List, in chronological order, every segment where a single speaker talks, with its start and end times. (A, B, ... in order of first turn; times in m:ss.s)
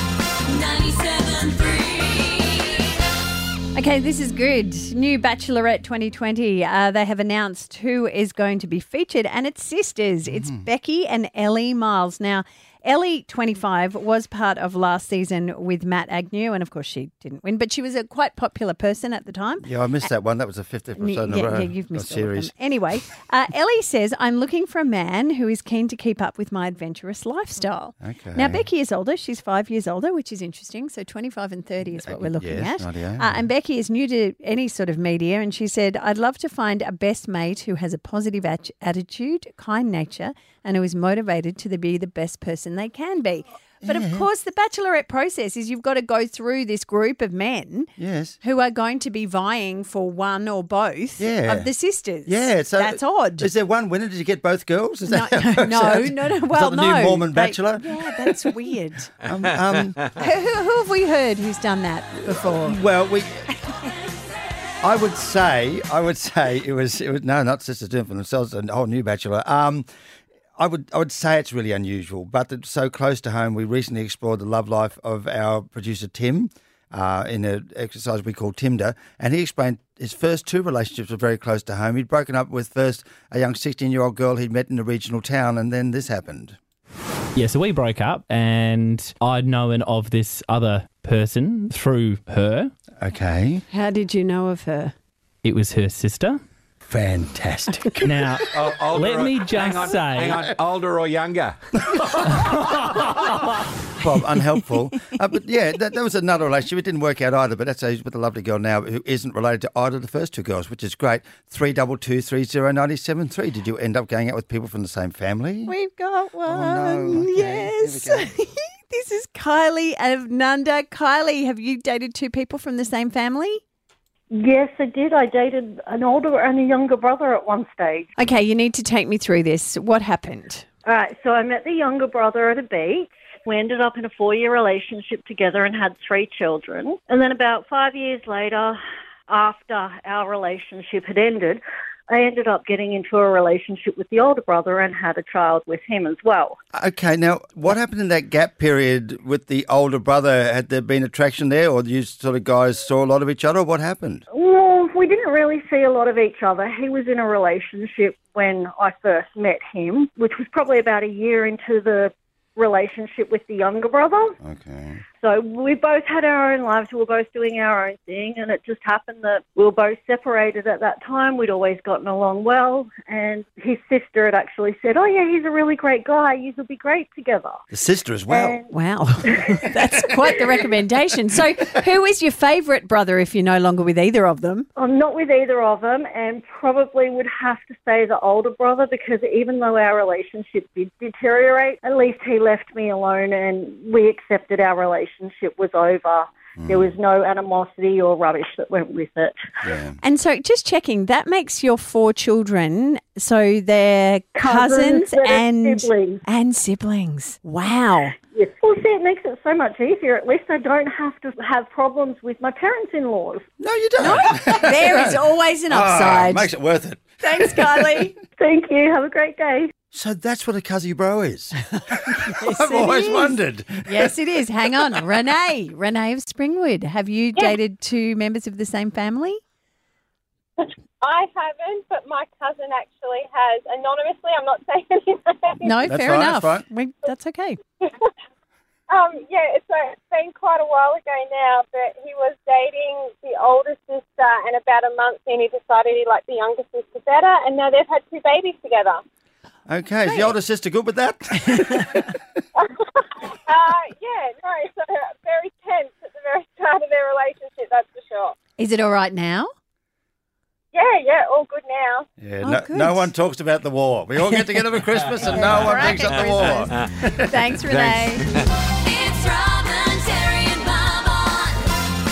0:00.5-0:02.6 A
0:03.7-0:19.6 A
0:10.3-0:10.6 B
0:19.6-0:22.5 B
0:21.0-0:53.5 A
0:28.0-0:28.6 B
0:31.8-0:33.4 B
0:43.8-0:44.3 B
0:48.0-0:48.4 B
0:51.2-0:51.7 B
0:52.2-0:58.6 B
0:55.1-0:59.1 A
0:59.2-1:00.0 B
1:00.2-1:02.8 A
1:02.2-1:03.5 B
1:04.8-1:09.9 B
1:10.6-1:26.6 B
1:27.4-1:32.7 C
1:33.0-1:33.6 B
1:33.7-1:34.9 A
1:35.4-1:36.4 C
1:36.9-1:38.3 B
1:38.0-1:40.4 C
1:38.5-1:42.3 D
1:44.0-1:55.7 B
1:55.7-2:03.6 A
1:56.4-1:58.3 B
2:04.3-2:08.1 E
2:08.2-2:10.6 A
2:10.8-2:26.6 E
2:26.7-2:34.2 B
2:34.3-2:44.4 E
2:44.4-2:45.0 B
2:45.2-2:57.6 E
2:57.7-2:58.6 B
2:58.3-2:58.7 E
2:58.7-3:04.7 A
3:04.8-3:19.4 E
3:16.6-3:16.9 B
3:19.6-3:20.0 B
3:20.0-3:28.1 A
3:24.4-3:26.2 E
3:28.3-3:33.4 E
3:33.6-3:38.1 B
3:34.0-3:36.5 A
3:37.2-3:38.1 A
3:38.4-3:39.7 E
3:39.9-3:44.1 B
3:41.9-3:49.4 A
3:50.6-3:55.7 F
3:55.6-3:57.6 A
3:55.8-3:56.6 B
3:57.8-3:58.1 F
3:58.9-4:09.0 F
4:09.7-4:12.2 B
4:12.6-4:18.3 F
4:18.6-4:19.5 A
4:20.7-4:22.0 F
4:22.2-4:27.2 B
4:22.4-4:23.1 A
4:24.3-4:24.6 A
4:25.2-4:28.2 A
4:28.8-4:31.5 A